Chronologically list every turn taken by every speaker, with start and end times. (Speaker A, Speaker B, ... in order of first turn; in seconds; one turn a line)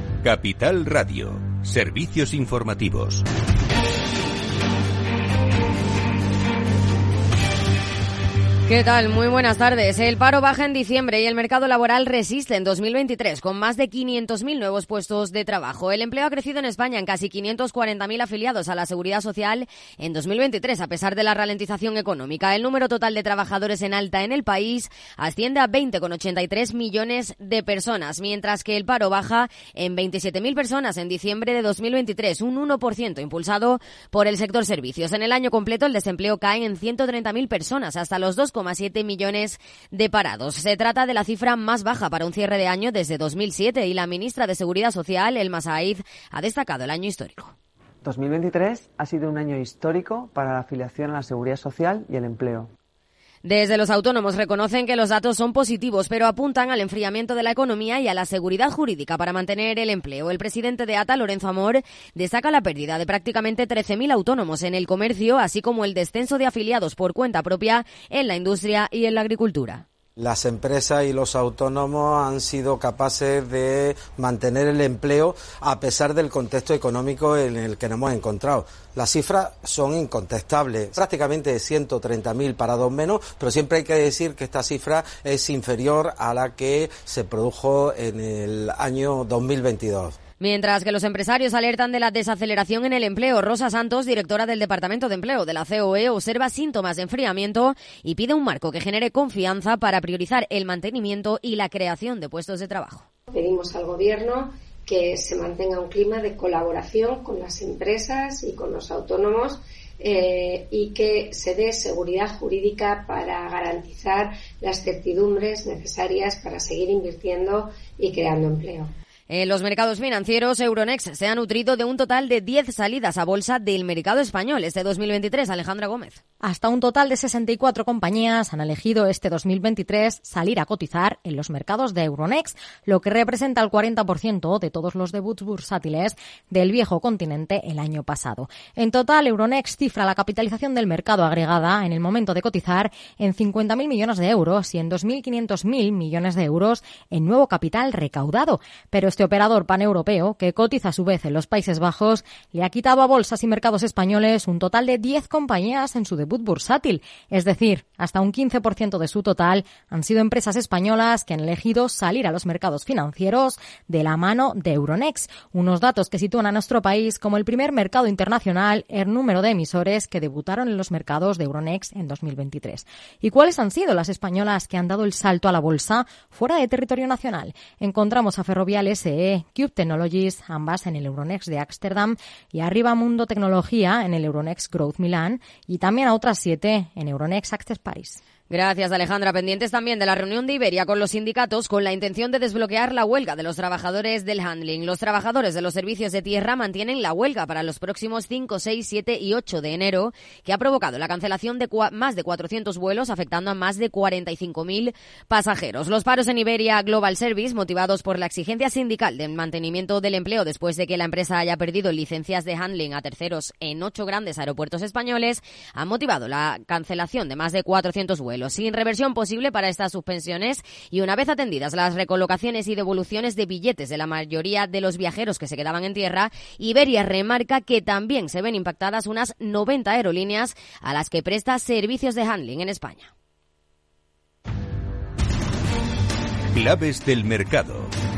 Speaker A: 0.2-3.2
Speaker B: 8.7-47.5
Speaker C: 48.0-52.7
Speaker B: 53.4-69.8
Speaker D: 70.2-90.2
Speaker B: 90.4-103.0
Speaker E: 103.3-118.9
Speaker B: 119.3-126.2
Speaker F: 126.4-188.2
Speaker B: 188.5-233.1
Speaker A: 236.5-237.9